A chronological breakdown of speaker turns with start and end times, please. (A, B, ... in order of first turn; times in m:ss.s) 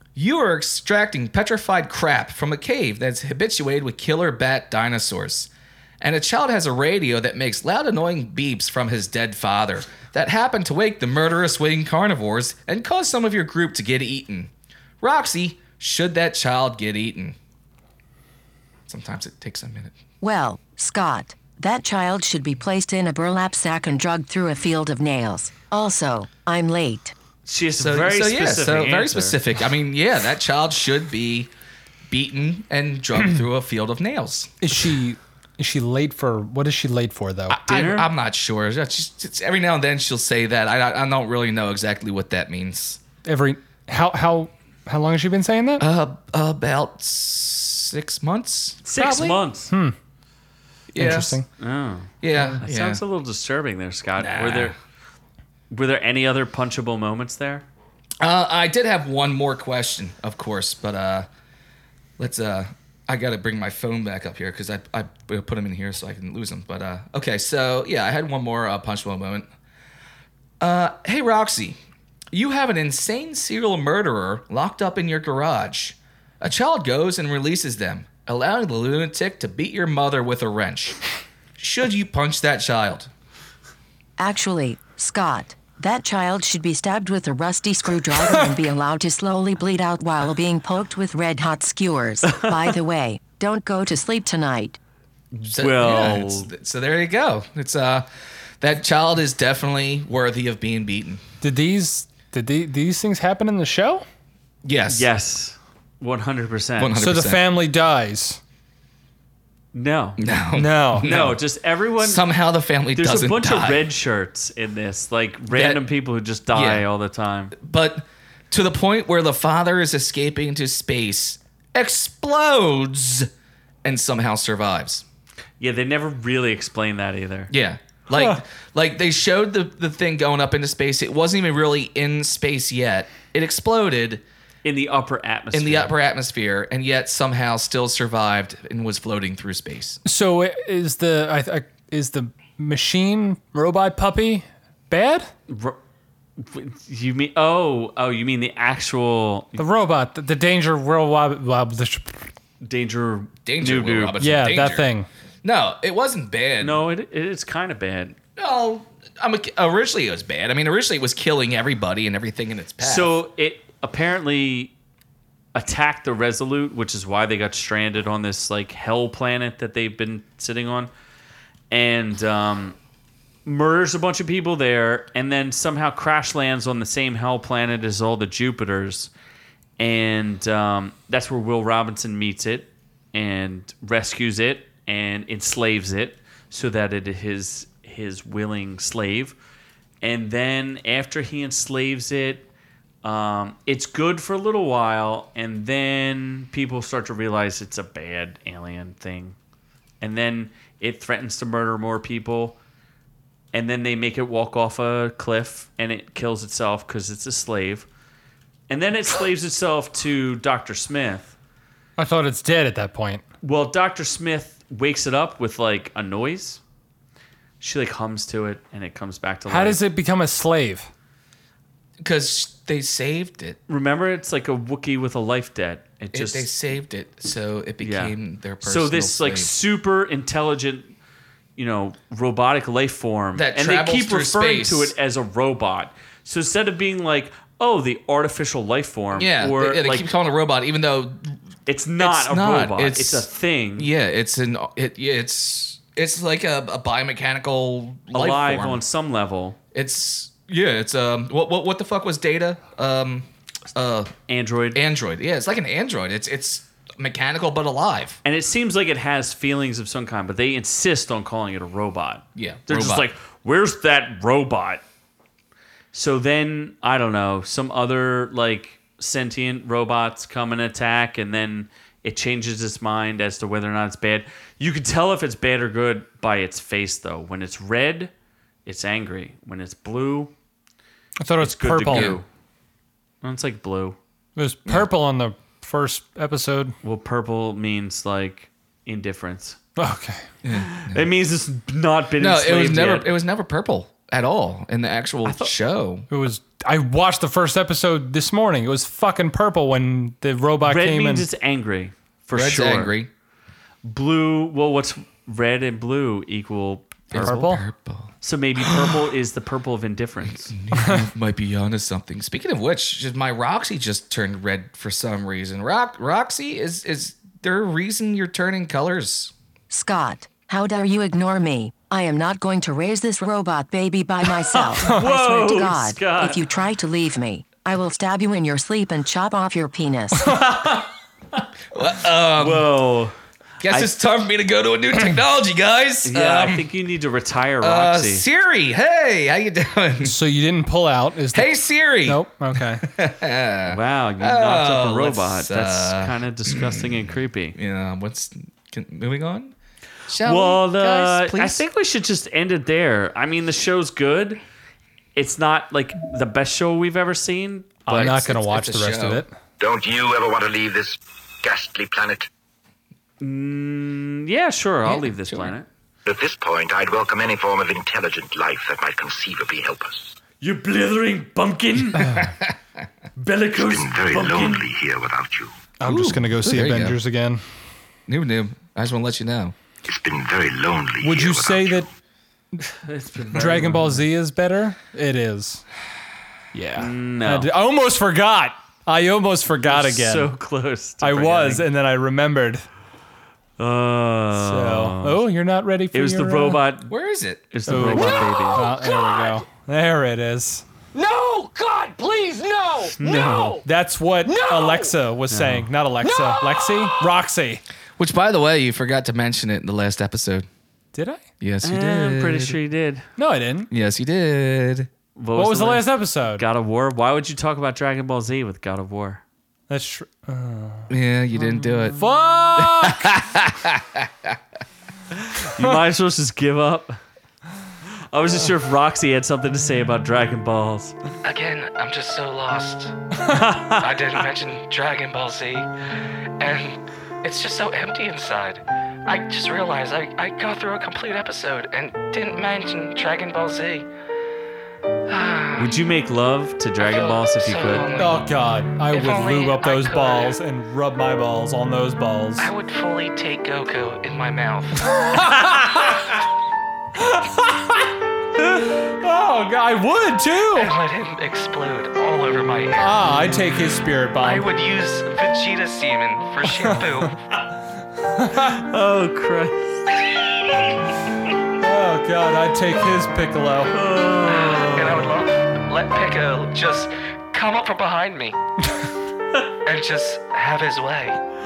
0:00.2-0:05.5 A
0:06.0-0:14.5 A
0:15.0-0:17.4 A
0:18.9-0:19.9 A
0:20.2-0:27.2 B
0:27.5-0:29.4 C
0:27.8-0:31.5 A
0:32.1-0:34.5 A
0:34.6-0:37.6 D
0:37.5-0:43.0 A
0:37.7-0:38.1 C
0:43.2-0:45.8 D
0:45.8-0:49.4 A
0:48.8-0:49.7 C
0:49.7-0:50.0 D
0:50.9-0:51.4 A
0:51.0-0:51.5 D
0:51.6-0:54.7 C
0:52.2-0:53.0 A
0:52.4-0:52.6 D
0:54.2-0:54.8 A
0:55.7-0:57.7 C
0:58.2-1:01.3 A
1:02.2-1:09.5 A
1:10.6-1:11.8 A
1:12.3-1:21.0 A
1:21.6-1:23.1 A
1:24.2-1:34.8 B
1:32.3-1:32.7 C
1:35.4-1:36.5 C
1:35.5-1:38.1 A
1:38.6-1:41.2 A
1:41.4-1:44.1 D
1:44.6-1:45.1 A
1:44.9-1:46.9 C
1:46.8-1:47.4 A
1:47.0-1:48.4 D
1:49.7-1:50.2 C
1:50.2-1:51.4 A
1:50.5-1:51.3 D
1:51.0-1:52.2 C
1:52.0-1:53.9 A
1:53.0-1:57.6 C
1:55.5-1:55.8 A
1:56.5-1:56.8 A
1:57.6-2:03.3 A
2:03.8-2:05.0 A
2:05.6-2:07.5 C
2:07.5-2:14.2 A
2:14.6-2:15.9 C
2:15.5-2:20.0 A
2:20.0-2:25.3 D
2:25.5-2:25.8 C
2:26.4-2:29.6 C
2:29.6-2:32.3 D
2:32.6-2:34.1 C
2:33.5-2:34.9 A
2:34.2-2:35.1 D
2:35.4-2:36.8 A
2:36.6-2:38.2 C
2:38.4-2:43.1 A
2:42.8-2:44.7 C
2:45.6-2:50.9 C
2:51.7-2:52.8 C
2:53.5-2:59.1 C
2:59.8-3:09.4 C
3:10.0-3:12.5 C
3:13.0-3:19.4 C
3:20.0-3:22.6 C
3:23.5-3:27.9 C
3:28.7-3:31.4 C
3:32.0-3:33.2 D
3:33.4-3:36.6 C
3:37.6-3:39.8 C
3:39.5-3:40.9 D
3:42.0-3:43.6 A
3:43.7-3:46.5 C
3:46.1-3:49.5 A
3:47.8-3:51.0 C
3:51.6-4:00.1 C
3:53.4-3:54.9 A
3:59.2-4:01.4 A
4:01.7-4:03.9 C
4:02.0-4:03.3 A
4:03.8-4:08.8 A
4:08.1-4:09.6 C
4:09.7-4:14.1 A
4:14.3-4:14.8 C
4:14.8-4:18.2 A
4:18.2-4:24.8 C
4:22.4-4:23.0 A
4:25.9-4:38.1 C
4:38.7-4:40.3 C
4:41.2-4:42.2 D
4:41.4-4:42.3 C
4:41.9-4:42.2 A
4:43.2-4:44.0 C
4:44.4-4:46.8 D
4:46.8-4:49.6 C
4:49.8-4:50.2 D
4:50.4-4:51.1 A
4:50.5-4:53.1 C
4:52.2-4:56.1 A
4:55.2-4:55.5 C
4:56.1-5:01.3 D
5:00.6-5:02.9 C
5:02.3-5:03.1 A
5:03.8-5:07.4 C
5:07.1-5:09.0 A
5:07.2-5:07.6 D
5:08.2-5:10.5 C
5:10.3-5:19.3 A
5:10.8-5:11.1 D
5:19.7-5:30.4 B
5:24.4-5:26.4 C
5:30.4-5:30.9 C
5:31.7-5:32.7 A
5:32.4-5:33.2 C
5:33.6-5:36.6 A
5:36.1-5:38.2 C
5:37.6-5:40.2 A
5:40.0-5:41.5 D
5:41.3-5:49.5 A
5:42.0-5:42.8 D
5:43.7-5:47.6 C
5:50.1-5:51.6 A
5:50.2-5:54.4 C
5:55.2-5:58.4 C
5:57.9-5:59.3 D
5:58.0-5:59.2 A
5:59.6-6:02.3 E
6:03.2-6:05.7 C
6:04.9-6:05.5 A
6:06.0-6:10.1 E
6:10.4-6:12.3 C
6:12.1-6:12.5 A
6:13.2-6:14.7 C
6:13.6-6:15.6 E
6:15.8-6:17.4 D
6:15.8-6:17.0 A
6:18.1-6:19.6 A
6:19.8-6:21.9 E
6:21.0-6:21.9 D
6:22.8-6:24.0 C
6:23.3-6:25.6 D
6:26.5-6:30.3 D
6:26.8-6:27.5 C
6:29.7-6:31.7 C
6:31.0-6:32.7 D
6:33.6-6:35.2 C
6:34.3-6:36.6 D
6:35.9-6:36.9 C
6:36.9-6:38.1 A
6:37.5-6:38.7 C
6:37.7-6:40.6 D
6:41.0-6:43.4 F
6:43.0-6:43.6 C
6:43.6-6:47.6 D
6:45.3-6:45.7 C
6:48.0-6:50.5 A
6:50.9-6:51.2 D
6:51.4-6:52.6 A
6:51.6-6:53.1 C
6:53.2-6:53.7 D
6:53.7-6:54.9 A
6:55.2-6:59.2 C
6:55.4-6:56.4 D
6:59.7-7:00.9 D
7:00.9-7:02.0 A
7:01.6-7:03.2 D
7:02.6-7:04.4 A
7:05.3-7:07.0 C
7:08.1-7:11.0 C
7:11.2-7:12.9 G
7:13.3-7:14.0 C
7:13.8-7:15.7 G
7:16.4-7:23.9 G
7:25.1-7:25.7 G
7:25.6-7:28.0 C
7:26.9-7:28.2 G
7:27.9-7:32.5 D
7:28.9-7:30.4 G
7:32.4-7:34.9 G
7:34.9-7:36.1 D
7:37.0-7:40.8 D
7:40.6-7:42.8 G
7:41.5-7:42.0 A
7:42.8-7:44.5 D
7:44.3-7:47.1 G
7:45.1-7:45.7 A
7:46.4-7:47.1 D
7:48.0-7:48.7 D
7:48.6-7:49.8 C
7:51.5-7:53.9 D
7:53.7-7:55.2 C
7:54.3-7:58.4 G
7:54.8-7:55.2 A
7:59.7-8:01.2 G
7:59.7-8:00.8 A